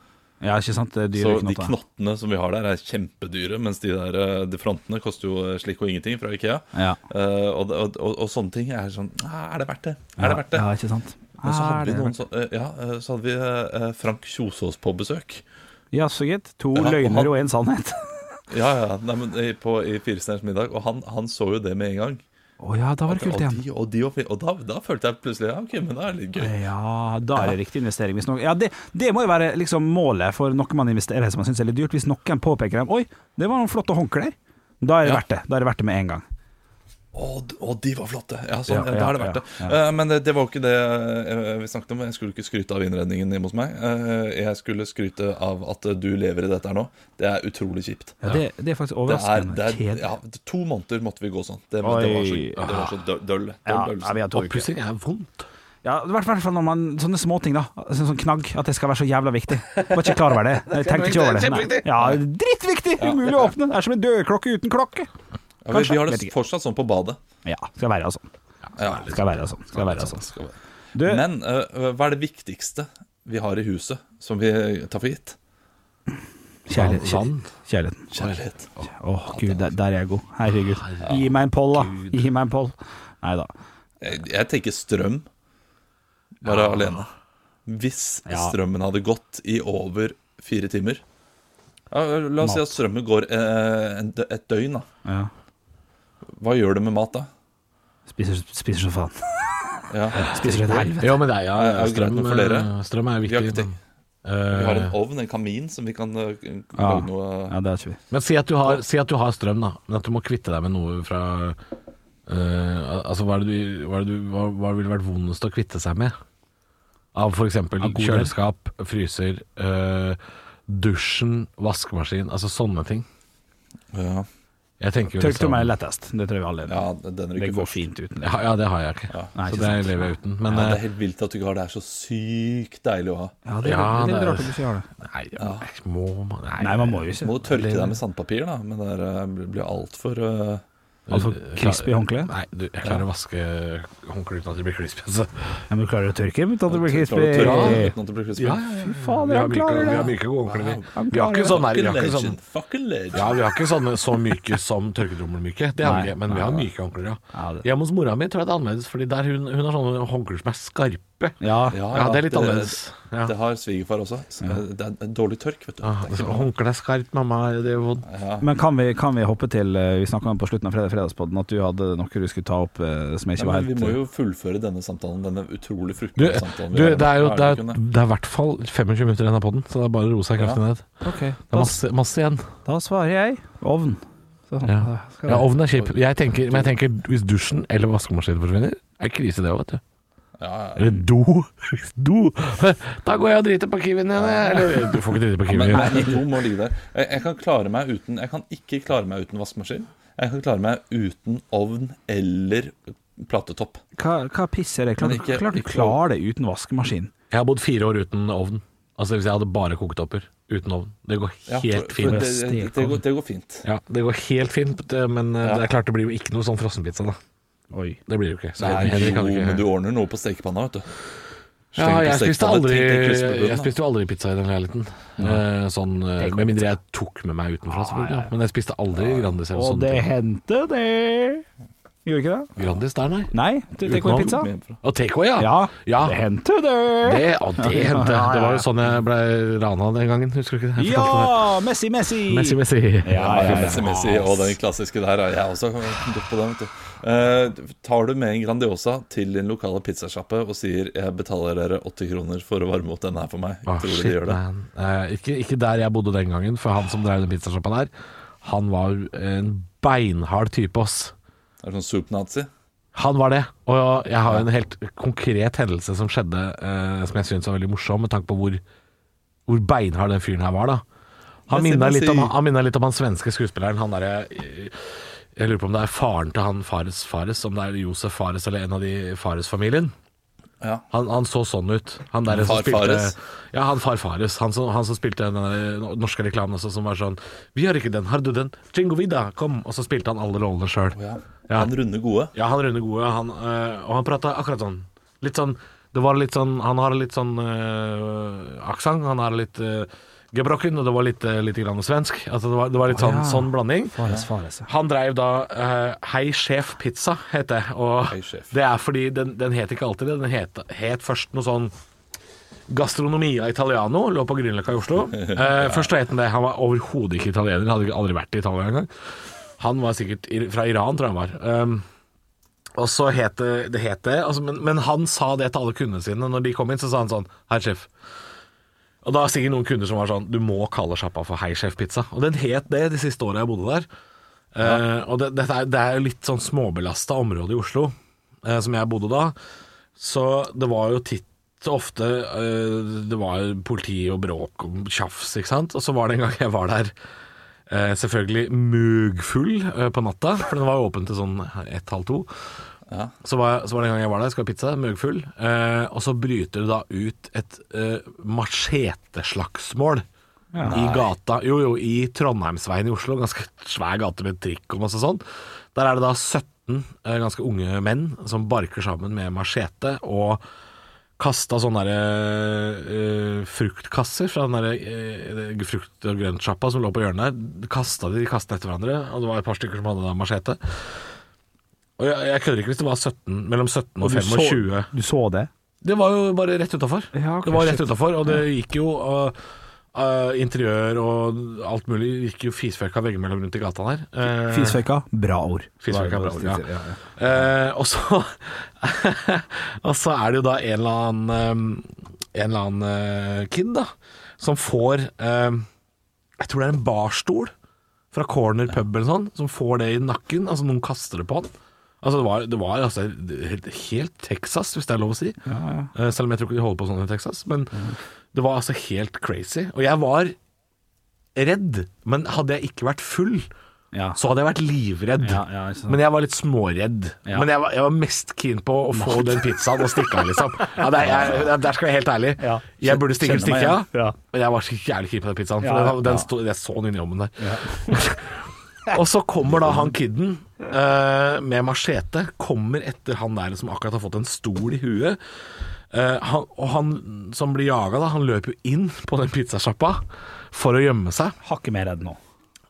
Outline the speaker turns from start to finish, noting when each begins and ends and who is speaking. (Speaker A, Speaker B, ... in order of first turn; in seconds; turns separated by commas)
Speaker A: 0.4-1.7, Speaker B: 1.1-10.7, Speaker A: 10.2-12.2, Speaker B: 11.4-15.4, Speaker A: 15.9-18.3, Speaker B: 16.8-17.3, Speaker B: 18.5-22.2, Speaker A: 22.6-23.6, Speaker B: 23.1-26.6, Speaker A: 26.4-36.2, Speaker B: 37.1-48.4, Speaker A: 38.7-39.8, Speaker A: 48.2-50.1, Speaker B: 49.0-54.2, Speaker A: 51.8-52.9, Speaker A: 53.7-54.7, Speaker C: 54.3-55.5, Speaker A: 55.8-65.1, Speaker C: 59.8-62.2, Speaker B: 63.0-63.5, Speaker B: 65.6-67.2, Speaker A: 65.7-66.3, Speaker A: 67.5-68.3, Speaker B: 68.8-75.4, Speaker C: 68.8-69.1, Speaker A: 69.0-70.2, Speaker A: 71.0-71.2, Speaker A: 76.7-78.1, Speaker C: 76.7-77.5, Speaker B: 78.1-78.7, Speaker A: 78.8-83.5, Speaker C: 80.8-81.1, Speaker C: 81.8-82.2, Speaker B: 84.0-85.3, Speaker B: 86.4-87.1, Speaker C: 86.5-87.0, Speaker B: 87.7-91.0, Speaker A: 88.3-88.5, Speaker B: 91.9-94.9, Speaker A: 92.4-92.8, Speaker A: 95.0-95.3, Speaker B: 96.4-97.3, Speaker A: 98.1-101.2, Speaker B: 99.9-103.8, Speaker C: 100.2-103.7, Speaker C: 104.2-104.9, Speaker B: 104.5-107.6, Speaker A: 106.8-108.0, Speaker C: 108.1-111.6, Speaker C: 112.3-116.1, Speaker C: 117.1-123.0, Speaker A: 117.8-118.4, Speaker B: 123.9-124.3, Speaker C: 124.8-125.7, Speaker A: 125.2-126.8, Speaker B: 126.7-127.9, Speaker A: 127.4-128.4, Speaker C: 128.2-130.8, Speaker A: 129.3-130.1, Speaker B: 130.5-133.4, Speaker A: 133.5-134.9, Speaker C: 133.6-138.0, Speaker B: 135.4-135.7, Speaker A: 136.6-137.4, Speaker B: 137.2-140.6, Speaker C: 141.1-145.7, Speaker A: 141.1-142.3, Speaker A: 145.7-147.9, Speaker B: 146.7-148.7, Speaker C: 147.4-152.4, Speaker A: 148.8-150.2, Speaker B: 149.7-153.6, Speaker A: 150.9-151.7, Speaker C: 153.1-161.4, Speaker A: 155.8-156.7, Speaker A: 157.3-157.7, Speaker A: 161.4-162.2, Speaker B: 161.7-166.5, Speaker C: 161.9-163.3, Speaker C: 165.8-168.1, Speaker B: 168.1-168.5, Speaker A: 168.4-174.0, Speaker B: 173.4-177.8, Speaker C: 176.2-181.0, Speaker A: 181.0-181.8, Speaker C: 181.5-182.4, Speaker A: 182.7-185.5, Speaker C: 184.7-189.8, Speaker B: 190.4-191.0, Speaker C: 190.8-196.2, Speaker B: 194.2-194.7, Speaker B: 195.5-203.8, Speaker A: 195.8-196.2, Speaker A: 204.0-207.1, Speaker B: 205.0-206.0, Speaker C: 207.3-212.2, Speaker B: 211.5-213.7, Speaker A: 212.0-213.0, Speaker C: 213.6-217.2, Speaker B: 215.4-215.7, Speaker A: 217.7-218.0, Speaker C: 218.1-219.6, Speaker B: 218.6-220.9, Speaker A: 218.6-219.2, Speaker C: 221.8-230.1, Speaker B: 221.8-223.7, Speaker A: 225.2-225.4, Speaker A: 226.2-226.6, Speaker A: 227.7-228.3, Speaker B: 229.0-229.3, Speaker A: 229.5-231.4, Speaker A: 232.1-232.5, Speaker C: 232.6-233.3, Speaker A: 233.3-234.5, Speaker B: 233.9-234.8, Speaker C: 233.9-236.2, Speaker A: 235.4-238.7, Speaker C: 237.0-241.4, Speaker A: 240.8-243.9, Speaker C: 242.3-244.6, Speaker B: 243.1-254.4, Speaker C: 253.7-257.9, Speaker C: 258.4-261.1, Speaker B: 261.6-262.5, Speaker C: 262.9-268.6, Speaker C: 269.5-270.8, Speaker C: 271.5-279.9, Speaker B: 271.5-272.4, Speaker B: 280.6-280.9, Speaker C: 280.9-291.7, Speaker B: 282.3-283.2, Speaker B: 290.9-292.3, Speaker C: 292.3-304.0, Speaker A: 302.9-304.7, Speaker C: 304.7-311.7, Speaker B: 308.1-308.5, Speaker C: 312.7-318.9, Speaker B: 315.2-315.9, Speaker C: 319.6-321.9, Speaker C: 322.8-327.9, Speaker C: 329.0-333.9, Speaker C: 334.6-339.4, Speaker C: 340.0-346.9, Speaker C: 347.7-352.3, Speaker C: 353.2-360.1, Speaker A: 360.5-361.0, Speaker B: 360.6-361.0, Speaker C: 360.7-365.2, Speaker C: 365.7-370.4, Speaker C: 371.2-381.0, Speaker C: 382.0-384.9, Speaker A: 384.0-385.5, Speaker C: 385.8-389.4, Speaker A: 387.1-388.5, Speaker C: 389.9-394.8, Speaker A: 394.2-397.5, Speaker C: 395.8-396.6, Speaker C: 397.2-405.7, Speaker C: 406.4-407.5, Speaker C: 408.1-415.4, Speaker A: 415.5-415.9, Speaker C: 415.9-420.4, Speaker C: 421.4-423.5, Speaker A: 423.9-424.2, Speaker C: 424.1-445.2, Speaker A: 425.2-426.0, Speaker A: 428.9-431.5, Speaker A: 432.4-434.2, Speaker A: 435.6-436.3, Speaker A: 437.4-438.0, Speaker C: 445.9-451.4, Speaker A: 451.4-452.2